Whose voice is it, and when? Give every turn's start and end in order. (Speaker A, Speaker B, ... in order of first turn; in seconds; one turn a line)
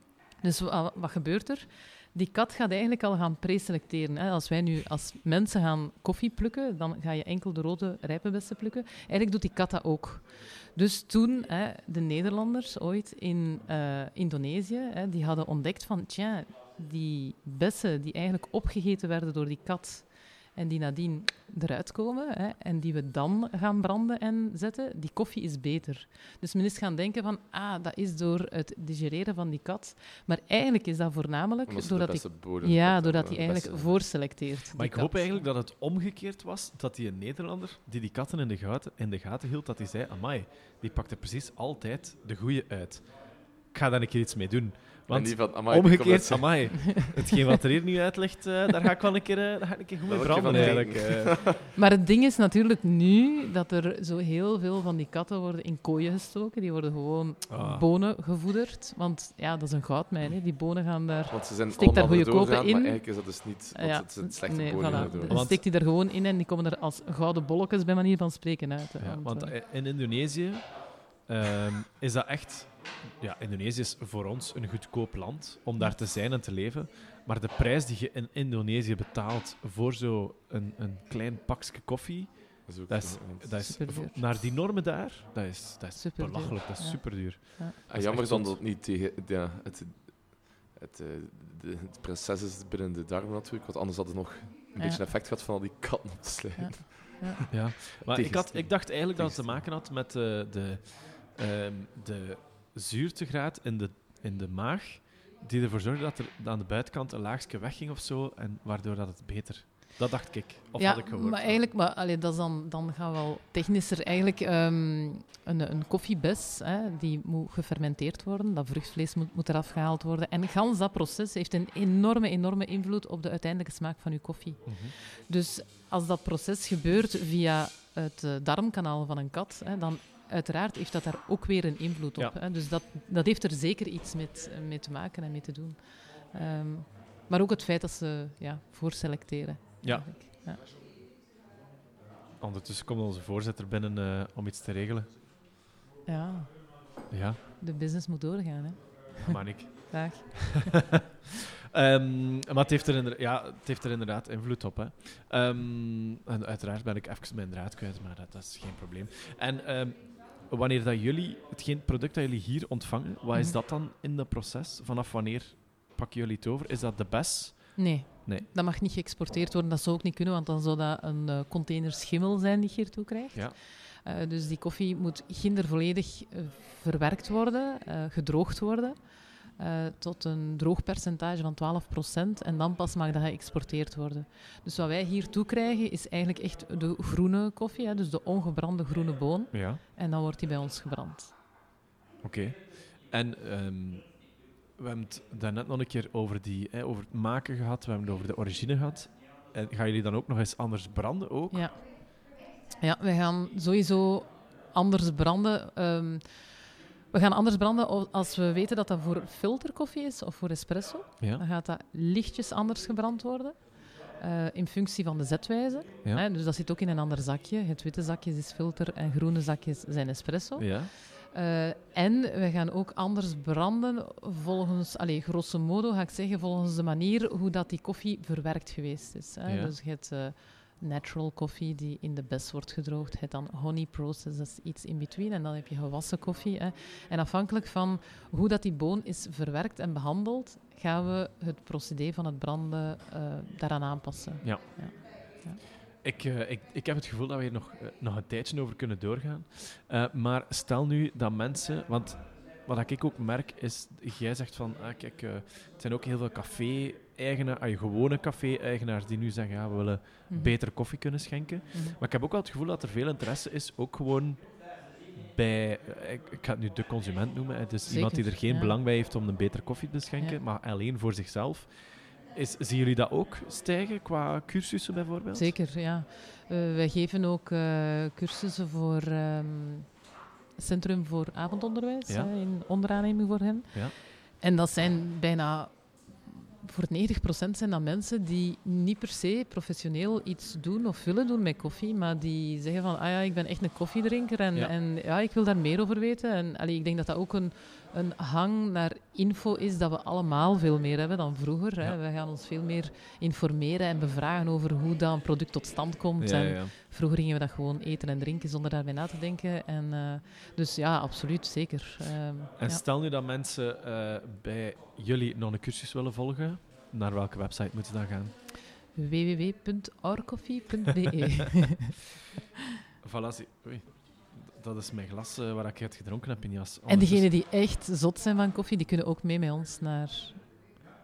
Speaker A: 0.4-35.5
Speaker B: 31.7-34.1
Speaker C: 34.7-51.5
Speaker B: 45.1-47.0
Speaker B: 50.0-51.6
Speaker A: 50.5-69.5
Speaker C: 57.5-57.9
Speaker B: 61.3-65.5
Speaker C: 64.9-65.6
Speaker C: 69.0-88.6
Speaker B: 82.7-83.8
Speaker A: 83.6-84.2
Speaker A: 86.0-87.8
Speaker B: 87.9-99.7
Speaker A: 94.8-95.0
Speaker A: 96.6-97.5
Speaker C: 97.5-111.6
Speaker A: 110.8-140.6
Speaker C: 124.7-125.0
Speaker C: 139.8-140.2
Speaker C: 142.4-145.1
Speaker A: 146.1-147.1
Speaker C: 147.1-147.4
Speaker A: 147.6-150.8
Speaker C: 149.2-150.8
Speaker C: 151.7-168.5
Speaker A: 167.8-191.3
Speaker C: 189.5-189.8
Speaker C: 192.2-194.2
Speaker C: 194.7-201.7
Speaker A: 201.5-202.3
Speaker A: 202.8-245.6
Speaker C: 220.6-220.9
Speaker C: 229.5-229.7
Speaker C: 246.0-264.6
Speaker A: 260.3-260.9
Speaker A: 261.7-262.0
Speaker C: 265.1-275.6
Speaker A: 267.9-268.8
Speaker A: 275.3-280.0
Speaker A: 280.6-312.8
Speaker C: 282.1-282.3
Speaker C: 306.2-306.7
Speaker C: 312.6-318.4
Speaker A: 318.9-321.9
Speaker C: 323.0-327.3
Speaker A: 326.9-330.5